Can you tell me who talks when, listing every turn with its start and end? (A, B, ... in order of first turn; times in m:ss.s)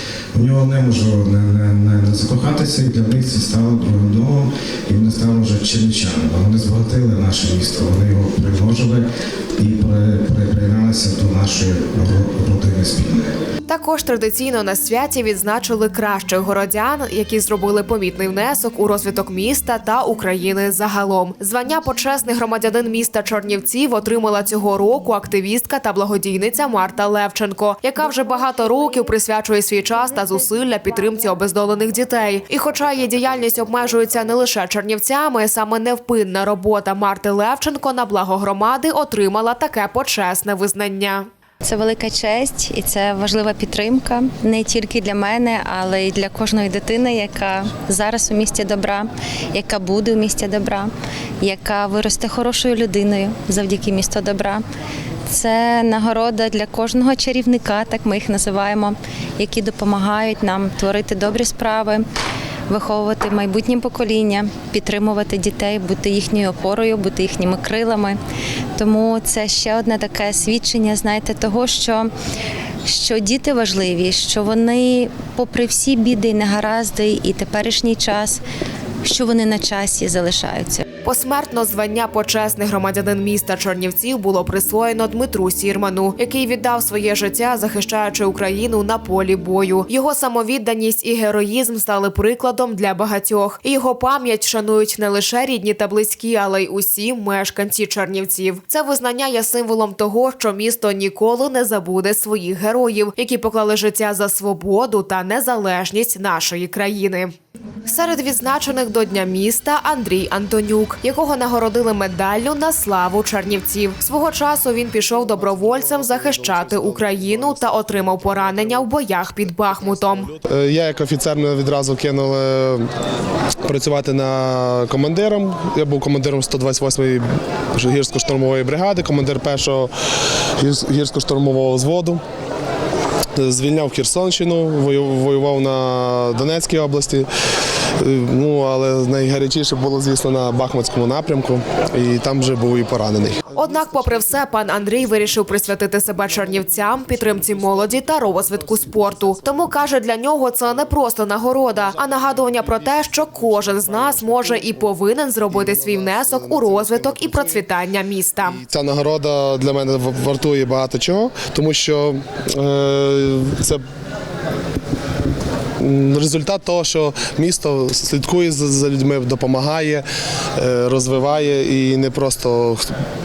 0:00.3-0:13.3 A
0:13.7-0:41.3 B
0:41.6-0:54.6 C
0:55.3-1:02.0 C
1:02.7-1:08.2 C
1:08.8-1:12.1 C
1:12.8-1:18.4 C
1:19.0-1:20.8 C
1:21.0-1:47.3 B
1:47.8-2:00.3 B
1:55.2-1:58.9 D
1:59.4-2:02.8 D
2:03.6-2:09.9 D
2:10.6-2:12.2 D
2:13.4-2:17.3 D
2:18.0-2:23.5 D
2:23.5-2:38.6 B
2:34.0-2:34.6 D
2:35.5-2:37.6 D
2:38.4-2:43.8 D
2:45.8-2:50.0 D
2:50.6-2:52.8 D